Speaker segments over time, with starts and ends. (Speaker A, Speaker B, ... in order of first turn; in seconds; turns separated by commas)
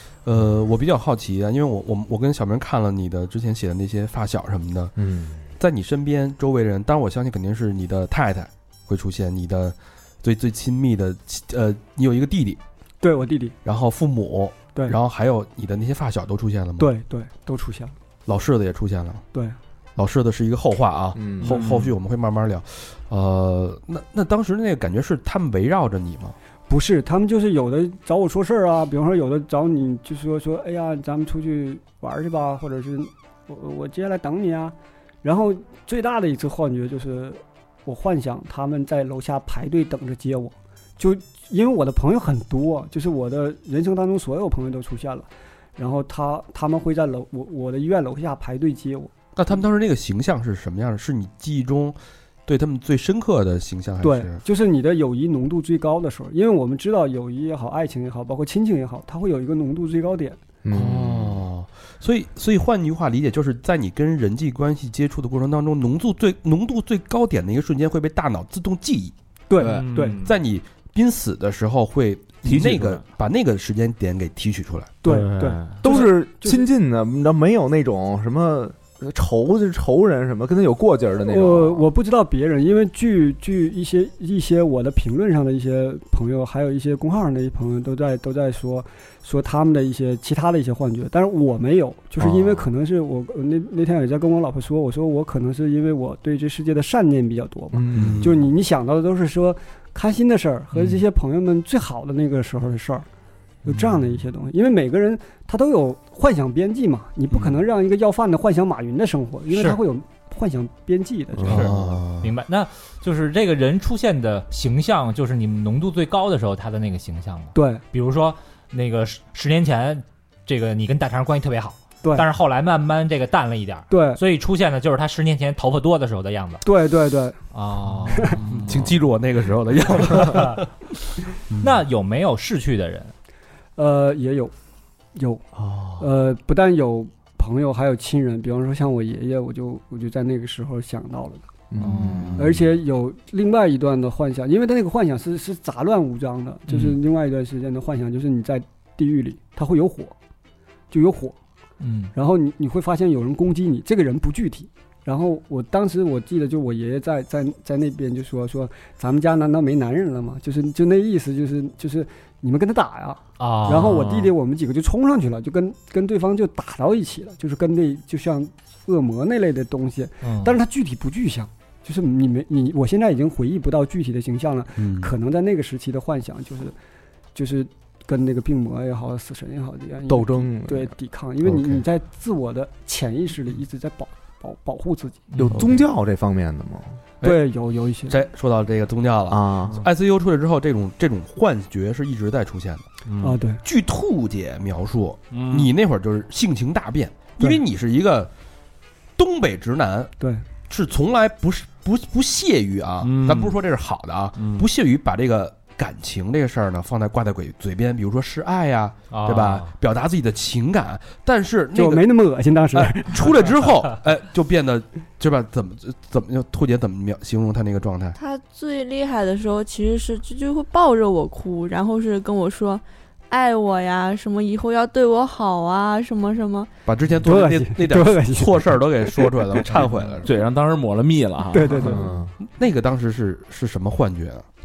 Speaker A: 0.2-4.9, Speaker B: 5.0-5.4, Speaker A: 5.6-12.6, Speaker C: 13.0-13.6, Speaker A: 13.7-16.9, Speaker C: 16.8-17.9, Speaker A: 18.3-19.2, Speaker A: 20.0-26.4, Speaker B: 21.1-21.6, Speaker D: 21.4-21.9, Speaker C: 26.7-49.1, Speaker A: 49.4-54.4, Speaker C: 54.0-60.4, Speaker B: 60.6-61.4, Speaker A: 60.7-69.1, Speaker C: 69.5-70.2, Speaker D: 69.6-70.4, Speaker A: 70.2-74.9, Speaker D: 72.4-73.1, Speaker C: 75.0-76.7, Speaker B: 75.1-81.9, Speaker C: 81.2-103.1, Speaker B: 92.2-92.5, Speaker B: 97.7-98.2, Speaker A: 97.9-98.5, Speaker C: 103.7-111.7, Speaker E: 109.5-109.8, Speaker B: 111.4-112.0, Speaker A: 111.5-112.3, Speaker E: 111.5-126.7, Speaker C: 117.5-117.8, Speaker C: 123.9-124.2, Speaker C: 126.6-127.4, Speaker E: 127.5-128.4, Speaker C: 128.1-128.4, Speaker D: 128.4-128.9, Speaker A: 128.5-130.7, Speaker E: 130.2-130.6, Speaker A: 131.5-131.8, Speaker E: 131.6-133.1, Speaker C: 133.8-134.5, Speaker C: 135.2-135.4, Speaker C: 136.0-141.5, Speaker B: 141.7-142.4, Speaker E: 141.8-142.3, Speaker A: 142.2-142.6, Speaker C: 142.4-150.2, Speaker C: 150.9-151.4, Speaker E: 151.8-152.1, Speaker C: 152.1-176.8, Speaker E: 163.4-164.3, Speaker E: 170.2-170.6, Speaker A: 174.8-175.1, Speaker C: 177.3-185.2, Speaker B: 180.1-181.8, Speaker B: 185.4-187.0, Speaker D: 185.5-185.7, Speaker C: 187.2-188.2, Speaker A: 188.1-192.9, Speaker B: 189.3-189.8, Speaker D: 193.1-193.4, Speaker C: 193.2-193.6, Speaker A: 193.6-198.3, Speaker D: 195.3-195.7, Speaker A: 199.2-200.1, Speaker C: 200.2-200.4, Speaker A: 200.7-212.1, Speaker D: 203.0-203.6, Speaker D: 204.4-204.7, Speaker E: 209.1-209.7, Speaker C: 211.7-213.4, Speaker A: 212.7-218.2, Speaker F: 218.2-226.7, Speaker A: 226.9-230.3, Speaker C: 227.2-229.3, Speaker D: 230.2-232.1, Speaker C: 231.5-232.1, Speaker B: 231.9-232.3, Speaker A: 232.6-234.4